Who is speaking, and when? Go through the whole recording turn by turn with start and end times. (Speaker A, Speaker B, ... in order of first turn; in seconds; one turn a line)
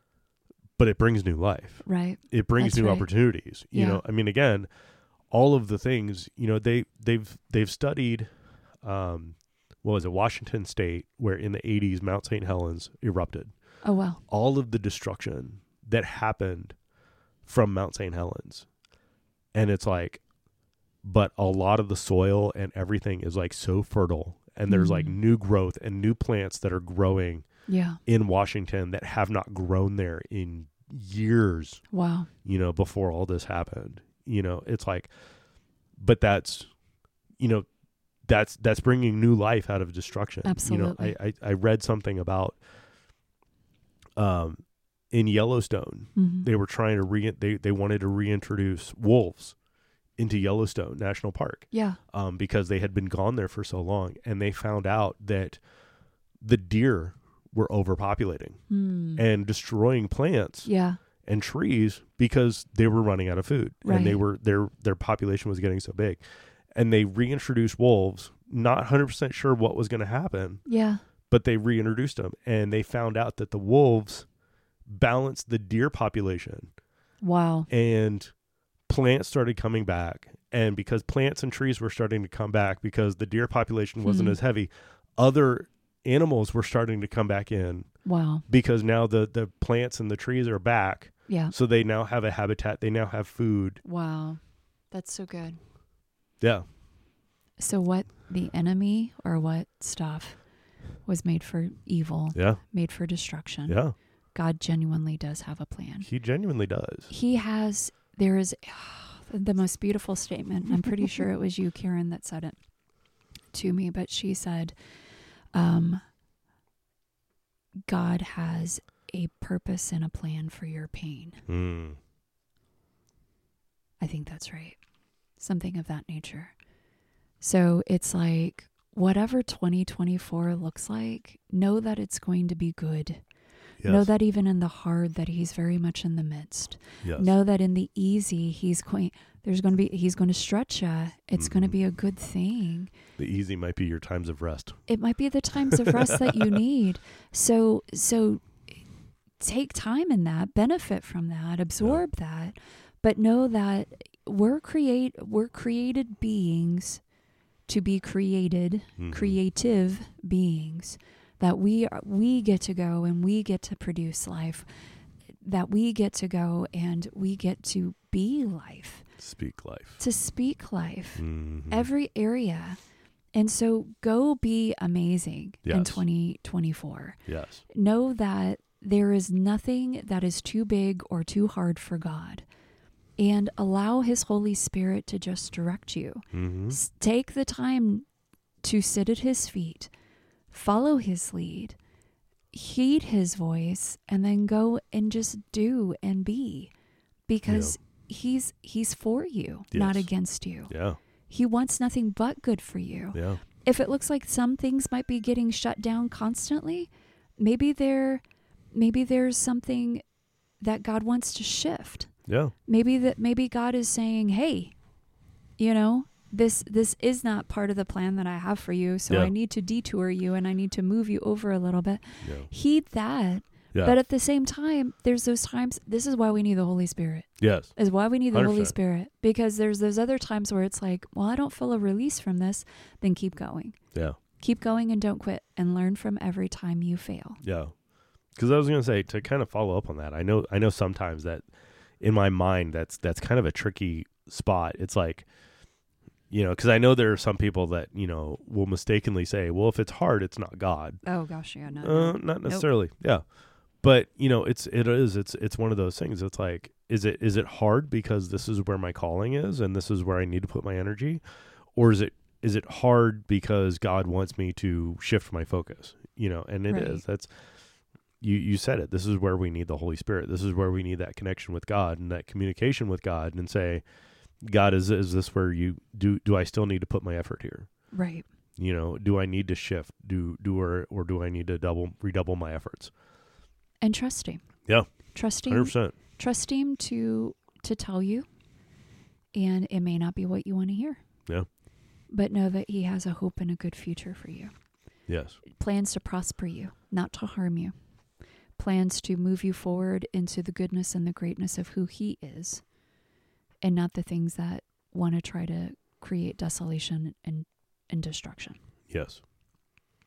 Speaker A: 0.8-4.7
Speaker B: 1.8-3.0
Speaker B: 3.7-4.0
Speaker A: 5.3-8.3
Speaker A: 8.8-13.5
Speaker B: 13.8-14.2
Speaker A: 14.3-16.7
Speaker A: 17.4-18.7
Speaker A: 19.5-20.2
Speaker A: 21.0-27.4
Speaker B: 24.7-25.2
Speaker B: 27.7-28.0
Speaker A: 28.1-31.8
Speaker B: 31.9-32.3
Speaker A: 32.4-35.1
Speaker A: 36.0-36.7
Speaker A: 37.4-37.6
Speaker A: 38.2-42.6
Speaker B: 40.4-41.1
Speaker A: 44.2-49.5
Speaker B: 46.1-46.5
Speaker A: 50.2-55.6
Speaker B: 51.7-52.0
Speaker A: 56.4-58.6
Speaker B: 58.7-59.2
Speaker A: 59.2-60.7
Speaker B: 60.6-61.0
Speaker A: 61.2-66.2
Speaker B: 63.8-64.2
Speaker A: 66.7-70.6
Speaker B: 70.7-71.0
Speaker A: 71.3-74.2
Speaker A: 74.9-76.7
Speaker B: 77.2-77.7
Speaker A: 77.7-78.3
Speaker A: 78.9-87.9
Speaker B: 84.0-84.4
Speaker B: 88.0-88.4
Speaker A: 88.5-93.8
Speaker B: 91.3-91.5
Speaker B: 93.8-95.6
Speaker B: 97.6-100.4
Speaker B: 101.0-103.8
Speaker A: 102.3-102.6
Speaker A: 103.7-103.9
Speaker B: 104.3-106.1
Speaker A: 106.0-107.1
Speaker B: 107.1-112.6
Speaker B: 113.5-114.7
Speaker B: 115.5-116.0
Speaker B: 117.9-121.4
Speaker A: 121.5-122.0
Speaker B: 124.0-124.8
Speaker B: 125.4-126.5
Speaker B: 127.4-133.2
Speaker A: 133.8-134.1
Speaker B: 133.8-142.9
Speaker A: 137.0-137.3
Speaker A: 141.4-141.8
Speaker A: 143.2-144.8
Speaker B: 144.9-148.6
Speaker A: 145.7-146.6
Speaker B: 149.4-157.0
Speaker B: 157.7-164.7
Speaker A: 159.0-159.4
Speaker B: 165.4-169.1
Speaker A: 169.2-170.0
Speaker B: 170.0-172.8
Speaker A: 171.2-171.9
Speaker B: 173.3-182.4
Speaker A: 175.6-176.0
Speaker A: 177.3-177.6
Speaker B: 183.2-188.0
Speaker A: 186.3-186.8
Speaker B: 188.6-189.9
Speaker B: 190.5-191.8
Speaker B: 192.5-196.7
Speaker B: 197.3-200.7
Speaker A: 197.5-197.7
Speaker A: 199.7-200.1
Speaker A: 200.7-201.0
Speaker B: 201.3-208.2
Speaker A: 203.1-203.4
Speaker B: 208.7-210.0
Speaker B: 210.6-212.1
Speaker A: 212.3-212.5
Speaker B: 212.7-214.7
Speaker B: 215.6-233.8
Speaker A: 222.2-222.5
Speaker A: 227.4-227.7
Speaker A: 228.3-228.7
Speaker B: 234.4-237.4
Speaker A: 237.4-237.7
Speaker A: 238.3-241.4
Speaker A: 242.0-245.3
Speaker A: 246.3-251.0
Speaker B: 251.0-252.7
Speaker A: 251.8-253.2
Speaker A: 253.8-261.2
Speaker A: 261.7-267.3
Speaker B: 266.7-267.0
Speaker A: 268.2-273.8
Speaker A: 274.4-277.7
Speaker B: 277.9-278.2
Speaker A: 278.6-282.9
Speaker B: 283.8-284.4
Speaker B: 285.1-288.2
Speaker A: 285.5-285.9
Speaker B: 289.3-291.0
Speaker B: 292.1-294.5
Speaker A: 295.1-295.4
Speaker B: 295.5-297.7
Speaker B: 298.6-302.6
Speaker B: 303.6-308.6
Speaker A: 308.9-309.2